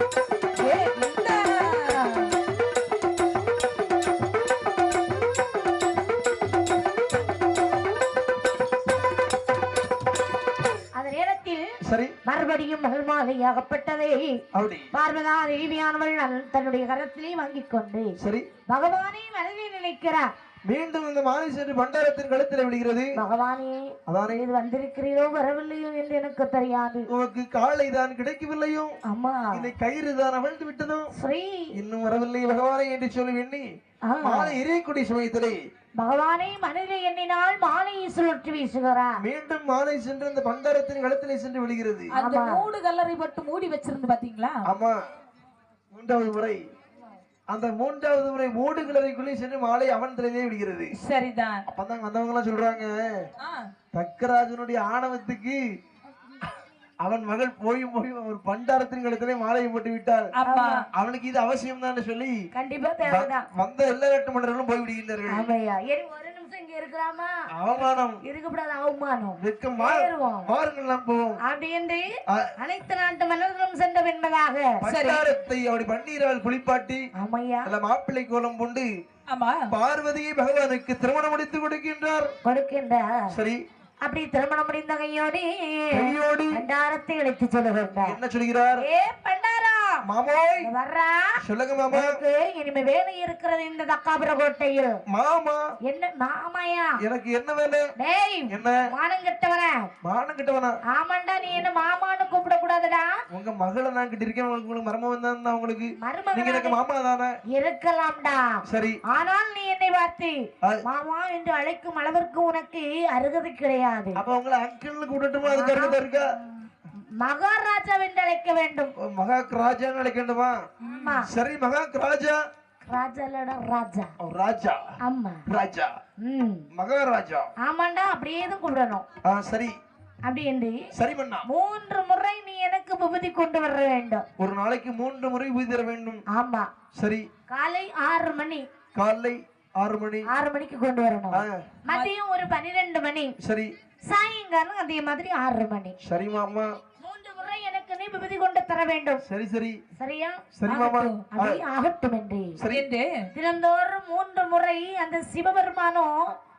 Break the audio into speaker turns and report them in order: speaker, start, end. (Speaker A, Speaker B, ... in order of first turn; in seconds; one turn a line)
Speaker A: 0.6-2.4
Speaker B: 10.9-11.7
Speaker C: 11.8-12.2
Speaker B: 12.3-14.4
Speaker C: 14.5-14.9
Speaker B: 14.9-18.1
Speaker C: 18.2-18.4
Speaker B: 18.7-20.3
Speaker C: 20.7-23.1
Speaker B: 23.2-27.1
Speaker C: 24.1-24.4
Speaker C: 27.1-28.9
Speaker B: 29.1-29.7
Speaker C: 29.5-31.1
Speaker B: 31.1-31.7
Speaker C: 31.8-33.6
Speaker B: 34.1-34.6
Speaker C: 34.2-35.6
Speaker B: 36.0-39.1
Speaker C: 39.2-42.1
Speaker A: 42.1-44.7
Speaker B: 42.2-42.7
Speaker C: 44.6-45.0
Speaker C: 45.9-46.6
Speaker C: 47.5-50.9
Speaker A: 51.0-51.6
Speaker C: 51.7-53.2
Speaker C: 53.9-55.6
Speaker C: 57.0-60.3
Speaker A: 60.4-60.8
Speaker B: 60.5-60.8
Speaker C: 61.0-62.4
Speaker B: 62.5-63.5
Speaker C: 63.0-65.5
Speaker B: 65.3-67.3
Speaker C: 67.6-68.2
Speaker B: 68.2-70.5
Speaker C: 69.4-71.4
Speaker B: 71.5-72.0
Speaker B: 72.6-74.8
Speaker C: 74.8-77.0
Speaker A: 74.9-75.2
Speaker B: 77.2-77.7
Speaker C: 77.7-78.9
Speaker A: 79.3-79.7
Speaker C: 79.7-82.3
Speaker B: 82.4-83.3
Speaker C: 83.3-83.6
Speaker B: 84.0-88.2
Speaker C: 86.0-86.6
Speaker C: 88.0-88.8
Speaker B: 88.8-90.0
Speaker C: 90.1-90.7
Speaker B: 90.6-91.3
Speaker C: 91.4-92.1
Speaker B: 91.9-94.9
Speaker C: 95.1-95.6
Speaker B: 95.9-96.9
Speaker C: 97.0-97.8
Speaker B: 98.0-99.9
Speaker C: 98.5-98.8
Speaker C: 100.0-100.8
Speaker B: 100.9-103.1
Speaker C: 103.3-107.3
Speaker B: 106.0-106.8
Speaker B: 107.5-108.5
Speaker C: 108.7-109.0
Speaker B: 109.1-114.2
Speaker C: 114.2-116.3
Speaker B: 115.5-116.0
Speaker B: 117.2-118.9
Speaker C: 119.1-120.6
Speaker A: 120.8-121.2
Speaker B: 120.9-121.3
Speaker C: 121.2-122.4
Speaker B: 122.9-124.1
Speaker C: 124.2-124.8
Speaker B: 125.0-125.4
Speaker C: 125.5-125.9
Speaker B: 126.2-126.7
Speaker C: 126.7-127.5
Speaker B: 127.6-129.1
Speaker C: 129.2-129.7
Speaker B: 130.3-130.8
Speaker C: 130.9-131.5
Speaker B: 131.5-134.2
Speaker C: 134.4-136.2
Speaker B: 136.3-136.7
Speaker C: 137.0-137.2
Speaker B: 137.5-138.6
Speaker C: 139.0-140.3
Speaker B: 140.3-143.3
Speaker C: 141.3-141.7
Speaker C: 143.4-143.7
Speaker B: 144.1-145.9
Speaker C: 146.0-146.7
Speaker B: 147.0-149.2
Speaker C: 149.3-149.8
Speaker B: 150.0-150.4
Speaker C: 150.6-151.6
Speaker A: 150.7-151.2
Speaker B: 151.3-152.6
Speaker C: 152.6-152.9
Speaker A: 152.7-153.1
Speaker B: 153.3-156.1